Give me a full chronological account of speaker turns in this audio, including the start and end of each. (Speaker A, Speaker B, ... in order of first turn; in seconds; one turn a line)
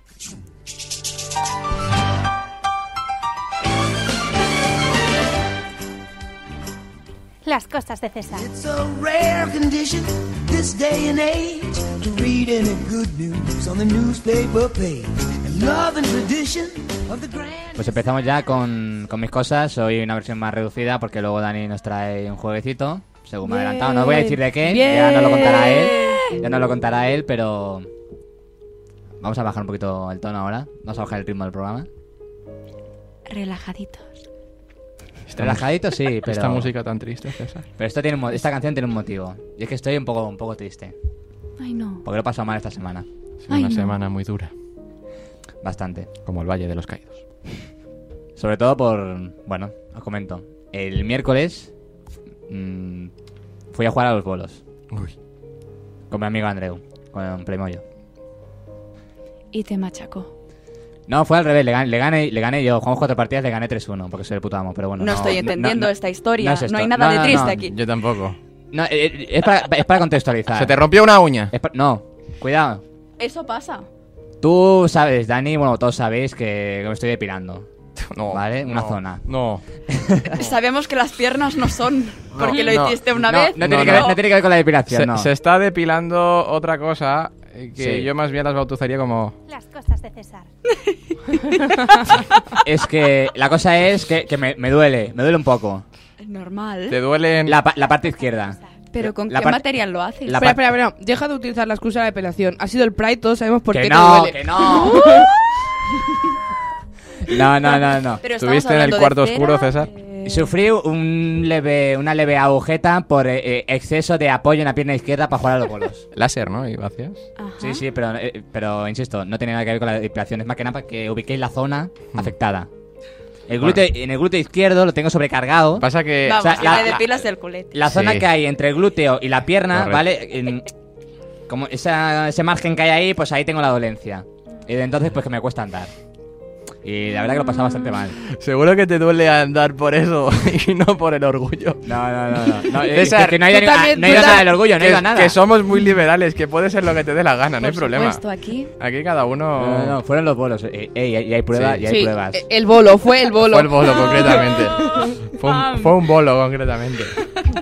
Speaker A: 7.4-8.5
Speaker B: 8.3-17.9
Speaker C: 17.8-27.9
Speaker D: 23.9-24.3
Speaker E: 24.0-26.4
Speaker C: 29.2-31.9
Speaker D: 33.3-34.1
Speaker F: 35.3-37.7
Speaker C: 35.4-36.7
Speaker C: 37.8-40.9
Speaker D: 41.6-42.0
Speaker C: 42.0-43.0
Speaker F: 43.5-44.5
Speaker D: 43.5-44.0
Speaker C: 45.6-46.1
Speaker F: 46.2-47.2
Speaker C: 48.4-51.7
Speaker C: 52.5-53.1
Speaker C: 53.7-54.6
Speaker C: 56.1-57.8
Speaker D: 59.5-60.3
Speaker C: 61.1-67.7
Speaker D: 65.0-67.7
Speaker F: 67.4-68.4
Speaker C: 68.7-70.8
Speaker F: 70.5-71.5
Speaker C: 71.5-72.8
Speaker D: 73.2-73.9
Speaker C: 74.4-77.7
Speaker F: 78.1-79.6
Speaker C: 78.3-79.2
Speaker C: 79.9-80.3
Speaker D: 80.3-84.2
Speaker F: 82.3-84.2
Speaker C: 83.2-85.3
Speaker F: 84.9-89.4
Speaker C: 87.8-88.1
Speaker A: 89.5-90.5
Speaker D: 91.5-92.0
Speaker C: 92.6-95.8
Speaker D: 96.2-97.0
Speaker F: 96.9-97.6
Speaker C: 97.4-99.6
Speaker D: 98.9-100.5
Speaker C: 100.2-100.7
Speaker E: 100.4-105.3
Speaker C: 103.7-105.2
Speaker D: 104.6-105.3
Speaker C: 107.2-108.2
Speaker D: 107.6-110.5
Speaker F: 108.3-109.9
Speaker C: 110.2-116.0
Speaker F: 116.1-117.2
Speaker D: 117.4-117.8
Speaker C: 117.6-122.7
Speaker C: 123.5-125.9
Speaker F: 125.8-127.0
Speaker D: 126.2-127.8
Speaker C: 126.4-127.0
Speaker C: 127.7-130.7
Speaker F: 127.9-128.2
Speaker F: 129.7-130.0
Speaker C: 131.5-135.9
Speaker C: 136.8-138.2
Speaker F: 138.3-141.8
Speaker C: 141.8-145.4
Speaker F: 142.8-148.2
Speaker E: 143.4-144.6
Speaker D: 147.6-148.7
Speaker F: 148.8-150.0
Speaker C: 149.6-152.4
Speaker F: 151.5-151.9
Speaker E: 151.9-155.1
Speaker F: 153.4-154.8
Speaker D: 154.0-156.0
Speaker F: 155.3-157.1